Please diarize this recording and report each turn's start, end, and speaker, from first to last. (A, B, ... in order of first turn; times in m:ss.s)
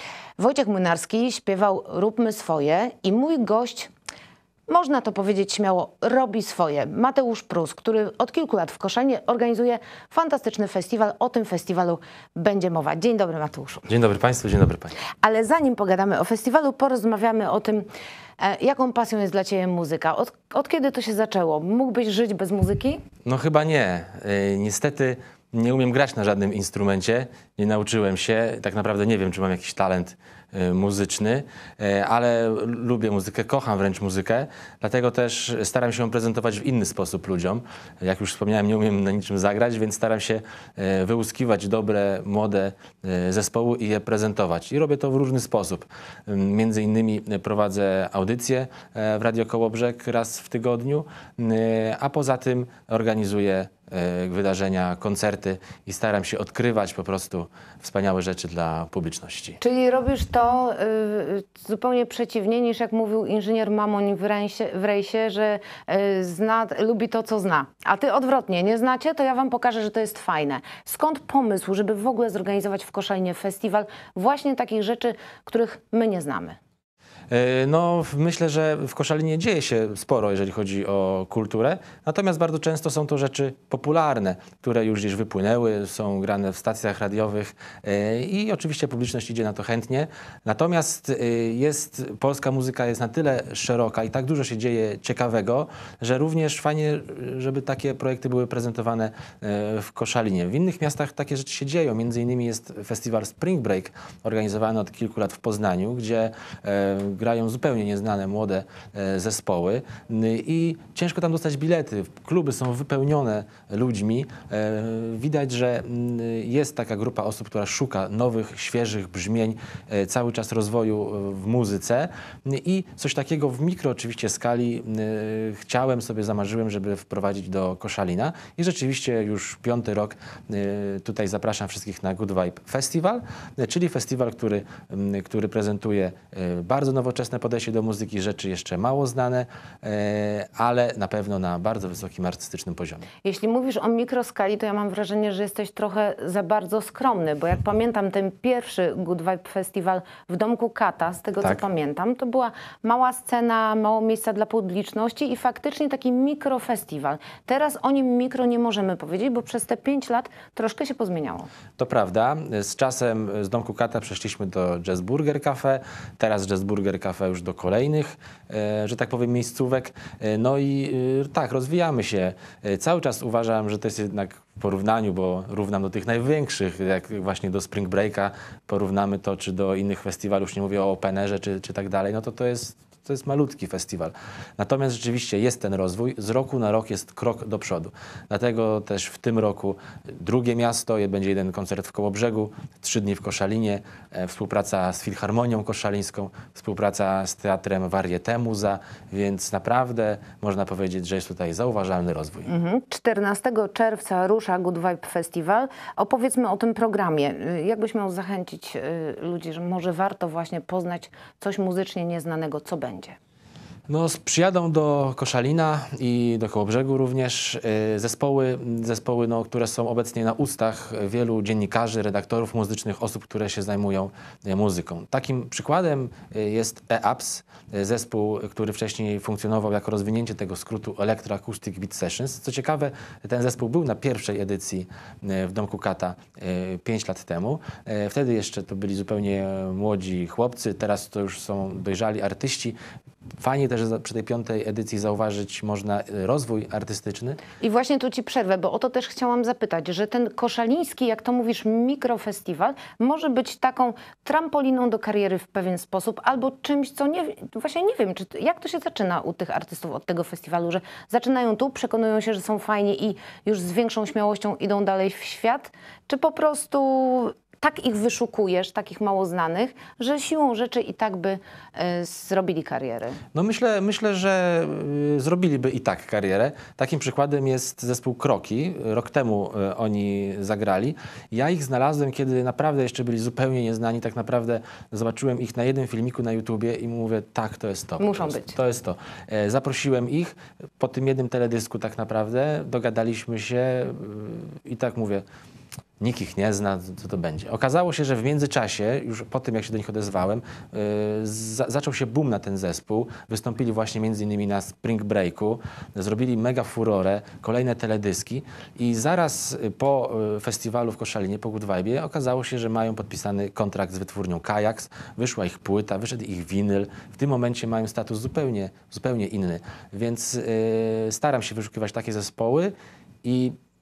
0:00.4-0:03.9 A
0:04.7-0:13.9 A
0:13.9-0:15.0 B
0:15.2-0:17.9 A
0:18.4-0:23.0 A
0:23.2-0:59.6 B
0:59.6-1:16.6 A
1:17.3-2:23.1 B
2:23.2-2:41.5 A
2:41.8-3:22.5 B
3:22.4-3:33.2 A
3:33.9-4:02.8 B
4:03.4-4:07.4 B
4:07.6-4:33.2 A
4:33.3-4:55.2 B
4:48.0-4:48.5 A
4:56.0-5:23.5 B